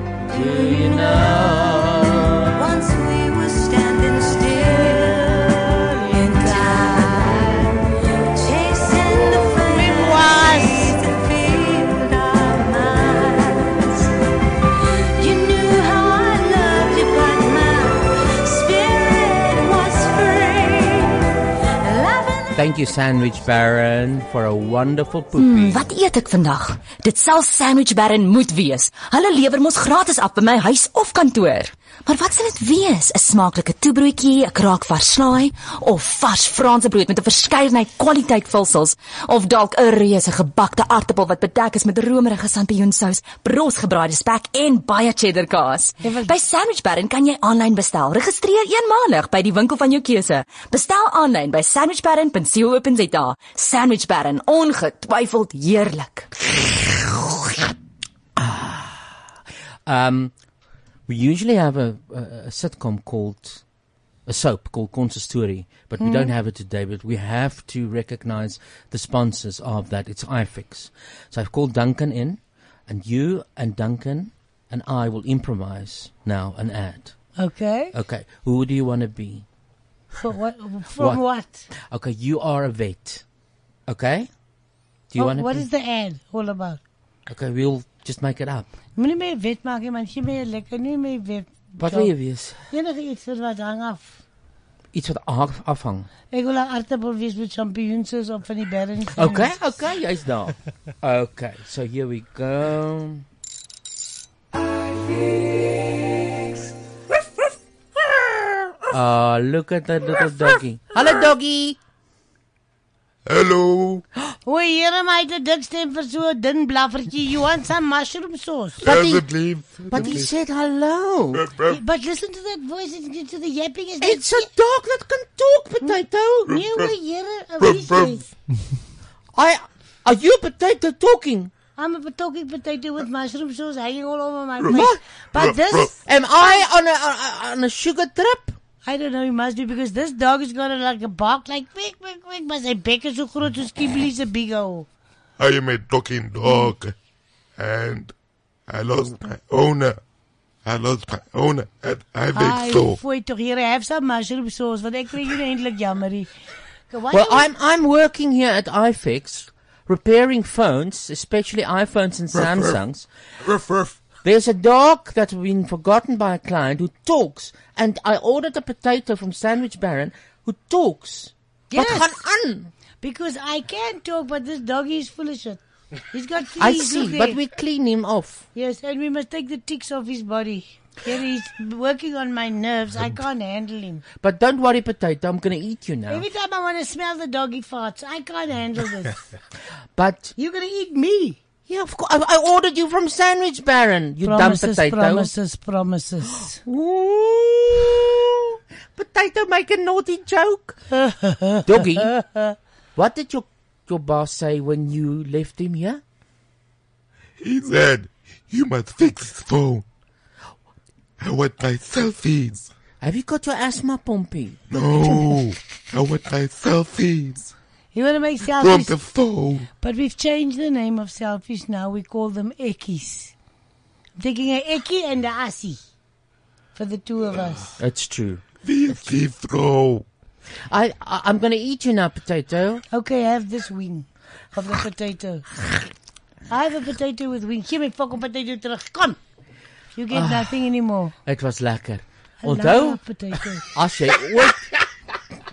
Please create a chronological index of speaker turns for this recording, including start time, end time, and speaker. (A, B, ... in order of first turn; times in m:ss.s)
0:00.2-0:02.7 A
0:00.4-0:01.8 B
0:02.5-0:05.6 B
0:04.8-0:07.6 C
0:06.1-0:07.8 B
0:08.3-0:14.1 B
0:09.4-0:11.0 C
0:15.2-0:21.3 B
0:21.8-0:22.6 B
0:22.5-0:25.9 A
0:25.4-0:56.3 D
0:46.0-0:46.3 C
0:56.6-0:57.6 A
0:58.4-0:59.2 A
0:59.9-1:00.3 A
1:01.1-1:03.6 A
1:04.3-1:17.2 A
1:06.0-1:06.3 C
1:17.4-1:17.9 C
1:17.9-1:19.4 A
1:20.2-1:21.7 C
1:21.0-1:23.2 A
1:23.9-1:24.3 A
1:25.1-1:25.6 A
1:25.2-1:26.8 C
1:27.3-1:28.7 A
1:29.0-1:32.1 C
1:31.8-1:32.6 A
1:32.7-1:34.2 C
1:34.9-1:36.1 A
1:36.3-1:39.5 C
1:39.1-1:43.2 A
1:48.9-1:51.8 A
1:53.3-1:54.0 E
1:54.5-1:59.1 C
1:58.8-2:00.3 E
1:58.8-2:01.5 A
2:01.4-2:01.8 E
2:01.6-2:04.5 C
2:04.0-2:06.6 A
2:06.5-2:08.3 C
2:07.6-2:08.2 E
2:09.3-2:11.5 A
2:11.8-2:16.5 C
2:14.6-2:15.9 E
2:14.7-2:15.0 A
2:16.0-2:18.6 A
2:18.8-2:24.9 C
2:25.4-2:27.0 E
2:26.4-2:26.7 C
2:27.6-2:28.1 E
2:28.7-2:30.0 E
2:30.6-2:33.0 E
2:32.3-2:36.3 C
2:36.9-2:37.5 C
2:37.1-2:43.1 A
2:42.4-2:42.8 E
2:43.5-2:44.0 E
2:44.2-2:52.7 A
2:51.7-2:52.2 C
2:53.0-2:55.6 C
2:56.1-2:57.4 C
2:56.6-2:58.4 A
2:58.6-3:04.0 C
3:04.2-3:06.3 A
3:06.1-3:09.2 C
3:10.0-3:10.3 A
3:10.4-3:11.4 C
3:11.7-3:15.3 A
3:14.2-3:16.6 C
3:16.4-3:20.8 A
3:20.9-3:22.6 C
3:21.6-3:22.1 A
3:23.0-3:26.0 A
3:27.4-3:29.8 E
3:31.2-3:32.7 E
3:33.0-3:34.6 A
3:34.7-3:37.5 E
3:37.9-3:39.0 C
3:38.6-3:39.7 E
3:39.8-3:43.3 C
3:44.2-3:45.8 C
3:46.8-3:47.7 C
3:47.8-3:48.4 A
3:48.6-3:50.1 E
3:50.7-3:52.8 A
3:52.9-3:55.5 C
3:56.5-3:59.2 C
4:00.0-4:01.1 C
4:00.1-4:00.7 A
4:01.2-4:03.0 A
4:02.4-4:03.6 C
4:03.6-4:04.7 A